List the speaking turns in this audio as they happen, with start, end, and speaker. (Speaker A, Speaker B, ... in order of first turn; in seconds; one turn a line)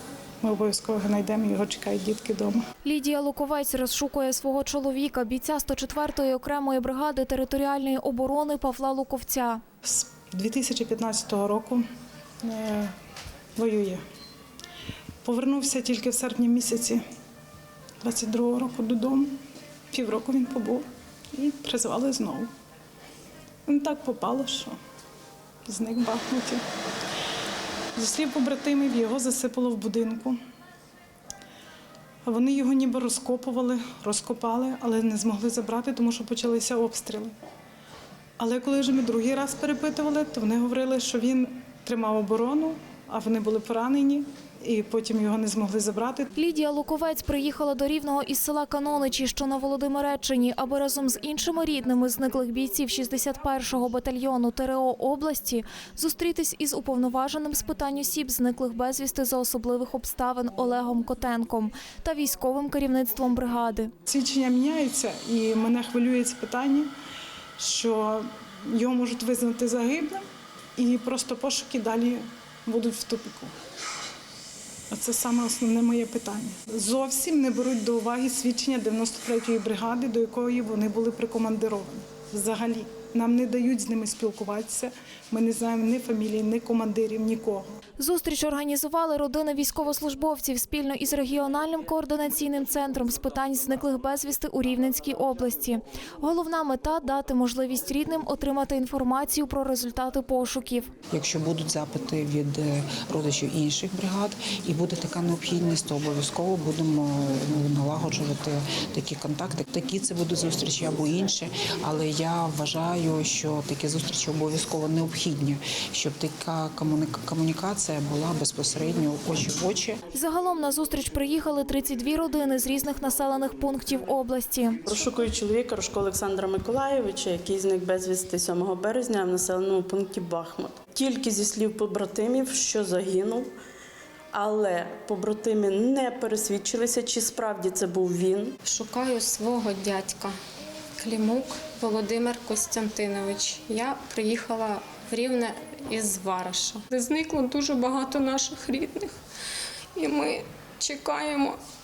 Speaker A: 0.4-2.6
Speaker B: 2.8-9.6
Speaker A: 9.8-11.8
Speaker A: 12.4-12.9
Speaker A: 13.6-14.0
Speaker A: 15.2-17.0
Speaker A: 18.0-19.4
Speaker A: 19.9-22.5
Speaker A: 23.6-24.8
Speaker A: 25.6-26.6
Speaker A: 27.9-30.4
Speaker A: 32.2-37.4
Speaker A: 38.4-46.3
Speaker B: 46.4-63.9
Speaker A: 64.1-66.9
Speaker A: 67.6-70.2
Speaker A: 70.8-73.5
Speaker A: 74.9-87.7
Speaker B: 88.0-100.9
Speaker C: 101.1-120.0
Speaker B: 120.1-124.8
Speaker D: 124.8-133.5
Speaker D: 134.3-138.6
Speaker E: 138.6-140.3
Speaker E: 141.0-149.1
Speaker E: 149.9-151.6